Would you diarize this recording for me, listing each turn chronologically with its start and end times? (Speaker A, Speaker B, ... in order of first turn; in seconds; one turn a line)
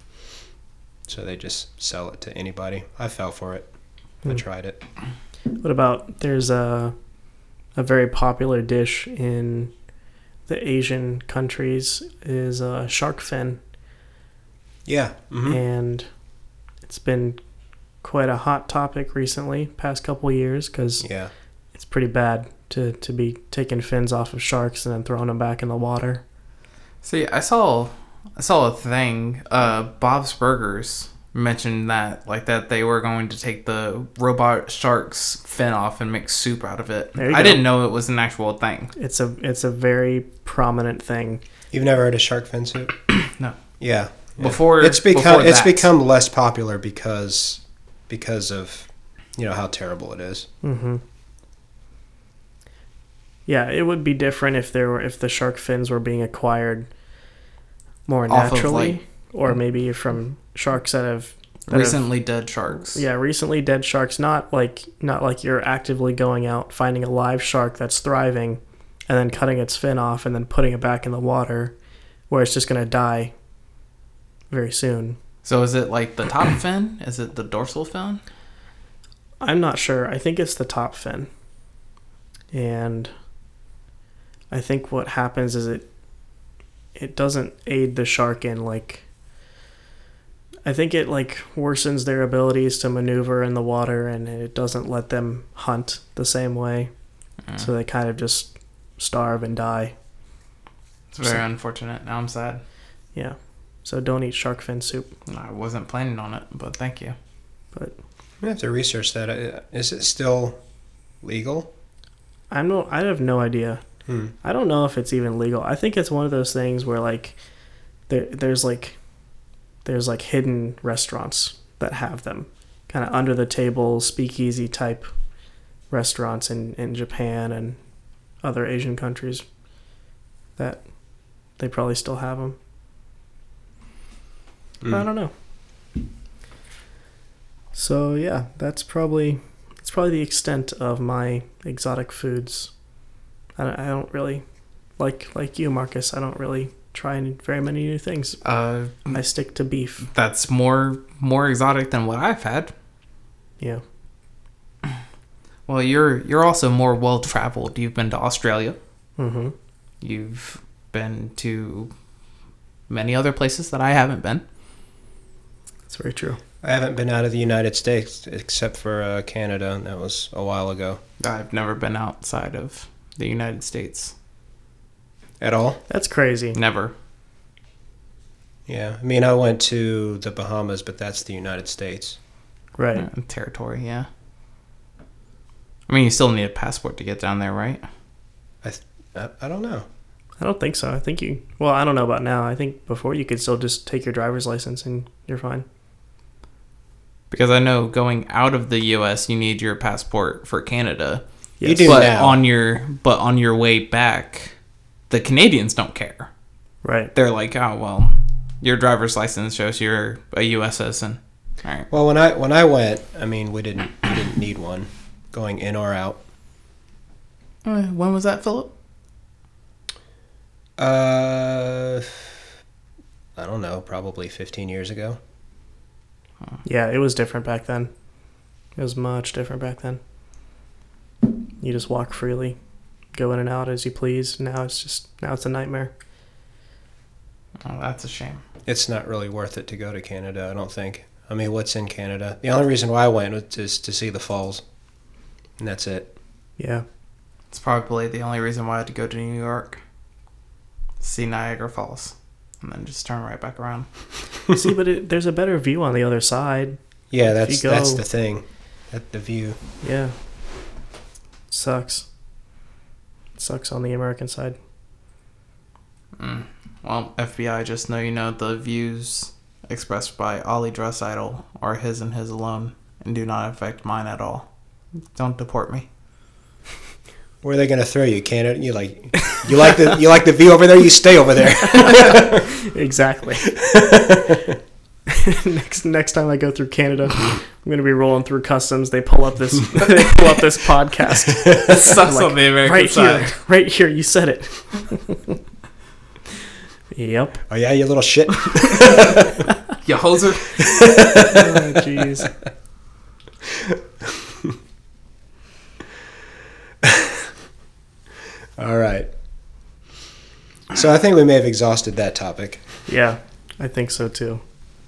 Speaker A: 1.1-3.7
Speaker A: 4.2-4.8
Speaker B: 5.6-6.9
Speaker B: 7.8-9.7
Speaker B: 10.5-13.6
Speaker A: 14.8-15.6
Speaker B: 15.5-16.1
Speaker B: 16.8-17.4
Speaker B: 18.0-21.0
Speaker A: 21.0-21.3
Speaker B: 21.7-26.2
Speaker C: 27.0-38.9
Speaker B: 37.2-37.6
Speaker B: 39.0-41.4
Speaker A: 41.7-42.9
Speaker C: 43.1-43.5
Speaker A: 43.8-50.5
Speaker C: 44.4-45.9
Speaker B: 50.6-51.0
Speaker B: 53.5-56.9
Speaker B: 58.1-62.0
Speaker C: 58.3-59.0
Speaker C: 61.7-63.0
Speaker B: 62.9-71.7
Speaker B: 72.3-73.3
Speaker B: 74.5-75.2
Speaker C: 75.4-78.2
Speaker B: 79.4-81.3
Speaker B: 82.5-83.1
Speaker B: 84.5-85.8
Speaker B: 86.9-89.0
Speaker B: 90.6-96.9
Speaker B: 97.5-99.9
Speaker C: 101.1-102.6
Speaker B: 103.1-105.1
Speaker C: 105.3-107.2
Speaker A: 108.4-110.6
Speaker A: 111.2-111.7
Speaker B: 112.5-113.8
Speaker A: 114.1-114.3
Speaker B: 114.4-117.4
Speaker B: 118.1-119.0
Speaker B: 119.8-125.1
Speaker B: 125.9-127.8
Speaker B: 128.4-129.4
Speaker B: 130.6-130.8
Speaker B: 131.6-132.6
Speaker B: 134.8-135.3
Speaker B: 137.7-142.7
Speaker B: 143.6-144.4
Speaker B: 145.0-148.4
Speaker C: 148.4-149.1
Speaker B: 149.1-150.1
Speaker C: 150.1-152.7
Speaker C: 155.7-158.8
Speaker B: 159.2-159.5
Speaker C: 160.0-161.9
Speaker C: 162.9-164.4
Speaker B: 165.9-166.4
Speaker A: 166.6-171.0
Speaker C: 171.2-174.1
Speaker A: 175.4-175.8
Speaker B: 175.9-176.6
Speaker C: 176.5-176.9
Speaker A: 178.7-182.2
Speaker B: 182.8-183.1
Speaker C: 182.9-184.1
Speaker C: 185.9-187.8
Speaker A: 188.6-189.9
Speaker B: 190.4-195.7
Speaker C: 197.3-201.2
Speaker B: 201.6-202.0
Speaker A: 201.6-202.4
Speaker C: 201.8-204.5
Speaker C: 205.1-206.3
Speaker B: 206.8-207.1
Speaker C: 207.1-211.9
Speaker A: 211.9-216.2
Speaker C: 217.6-218.7
Speaker A: 220.8-222.3
Speaker A: 223.3-225.2
Speaker B: 226.6-227.9
Speaker B: 228.8-230.0
Speaker B: 231.6-232.6
Speaker B: 233.1-235.9
Speaker C: 237.6-238.4
Speaker A: 238.7-244.6
Speaker A: 245.6-246.1
Speaker B: 246.6-246.8
Speaker C: 247.5-249.8
Speaker C: 251.0-253.9
Speaker B: 254.5-258.0
Speaker A: 257.1-259.6
Speaker B: 259.8-260.1
Speaker B: 261.5-262.1
Speaker B: 263.4-264.6
Speaker C: 266.2-274.5
Speaker C: 275.1-275.9
Speaker A: 277.4-282.5
Speaker B: 281.7-283.6
Speaker A: 283.4-284.6
Speaker B: 285.1-295.4
Speaker C: 291.6-293.3
Speaker B: 296.9-297.4
Speaker A: 297.5-299.5
Speaker C: 298.8-299.3
Speaker C: 299.8-301.4
Speaker A: 300.6-301.7
Speaker B: 301.2-302.3
Speaker A: 303.4-304.6
Speaker A: 306.8-307.3
Speaker A: 308.6-309.1
Speaker A: 310.7-312.6
Speaker B: 312.9-314.4